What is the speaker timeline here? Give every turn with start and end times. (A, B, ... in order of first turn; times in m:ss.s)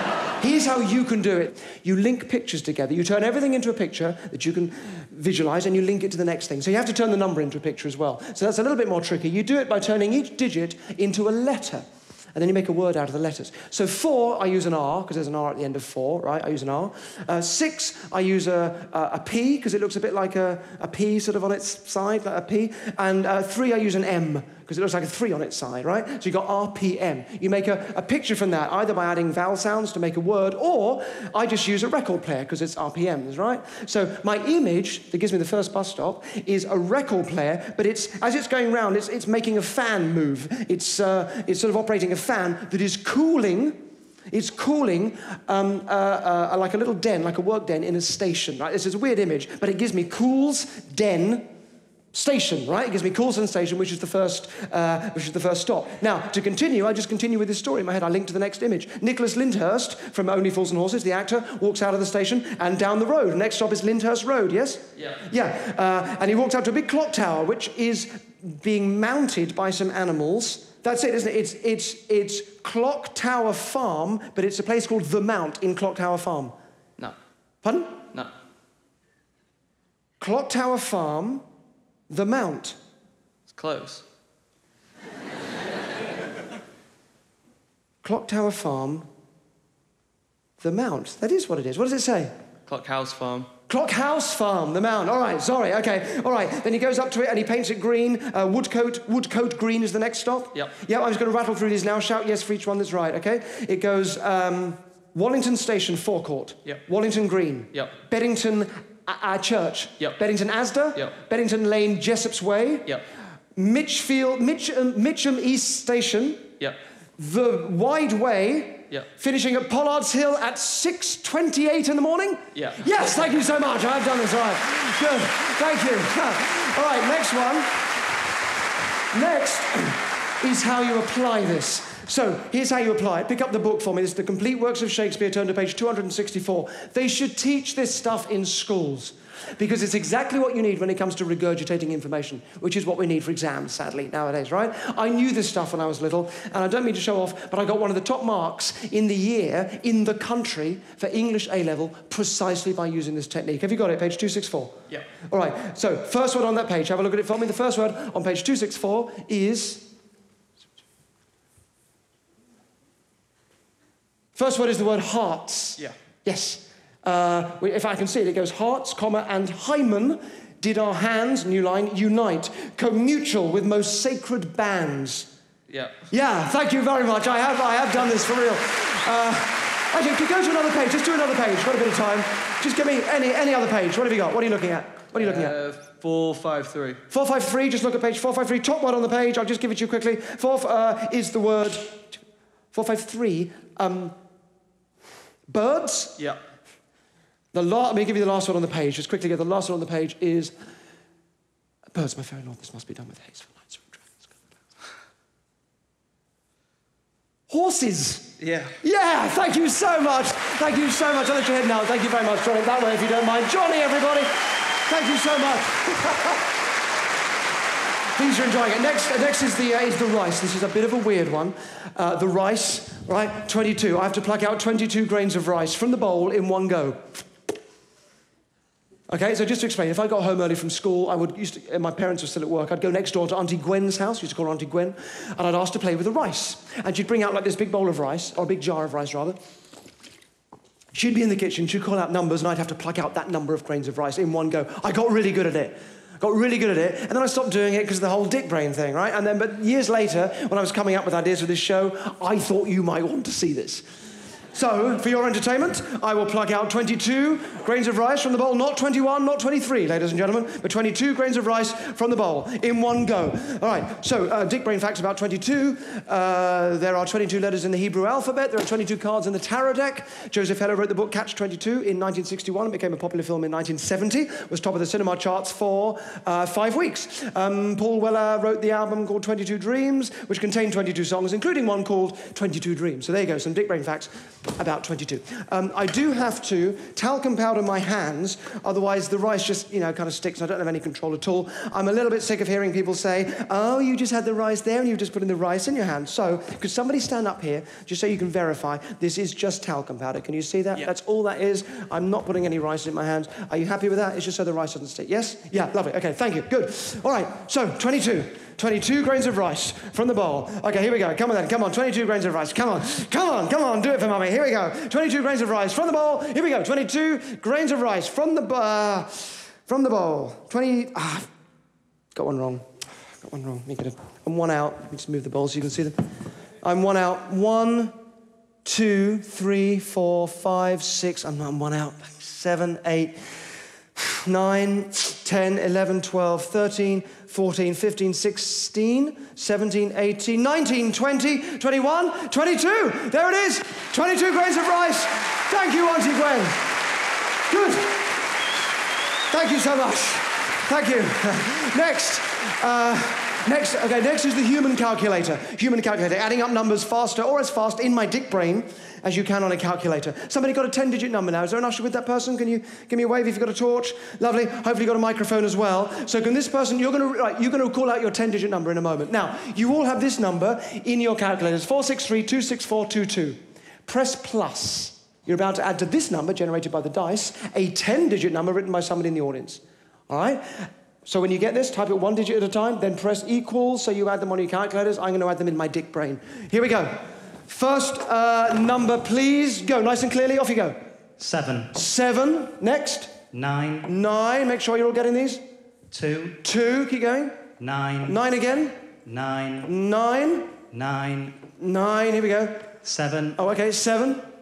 0:00.4-0:51.5 A
0:52.1-1:16.5 A
1:17.6-1:18.0 A
1:20.2-1:21.4 A
1:22.1-1:22.8 A
1:28.0-1:29.1 A
1:30.6-1:32.3 A
1:32.8-1:33.4 B
1:33.7-1:52.9 A
1:53.6-1:56.5 A
1:57.2-2:07.7 A
2:09.1-2:34.8 A
2:35.3-2:39.9 A
2:44.3-2:55.3 A
2:56.1-3:05.6 A
3:05.2-3:07.0 B
3:07.1-3:12.2 A
3:12.7-3:14.1 A
3:15.5-3:16.2 A
3:17.5-3:20.5 A
3:21.9-3:24.3 A
3:27.5-3:34.3 A
3:34.9-3:36.4 A
3:38.2-3:47.1 A
3:49.1-3:59.4 A
4:00.9-4:13.8 A
4:14.5-5:21.3 A
5:22.1-5:22.6 A
5:23.2-5:26.0 A
5:26.6-5:28.0 A
5:28.6-5:33.2 A
5:34.0-5:46.6 A
5:47.5-5:48.0 A
5:49.3-6:30.8 A
6:31.2-6:31.7 C
6:31.7-6:33.2 A
6:33.3-6:33.9 C
6:33.8-6:35.4 A
6:35.9-6:36.4 C
6:36.4-6:37.4 A
6:37.6-6:38.2 C
6:38.0-6:38.8 A
6:39.0-6:39.7 C
6:39.6-6:40.6 A
6:40.7-6:41.4 C
6:41.6-6:42.7 A
6:42.8-6:43.4 C
6:43.3-6:44.3 A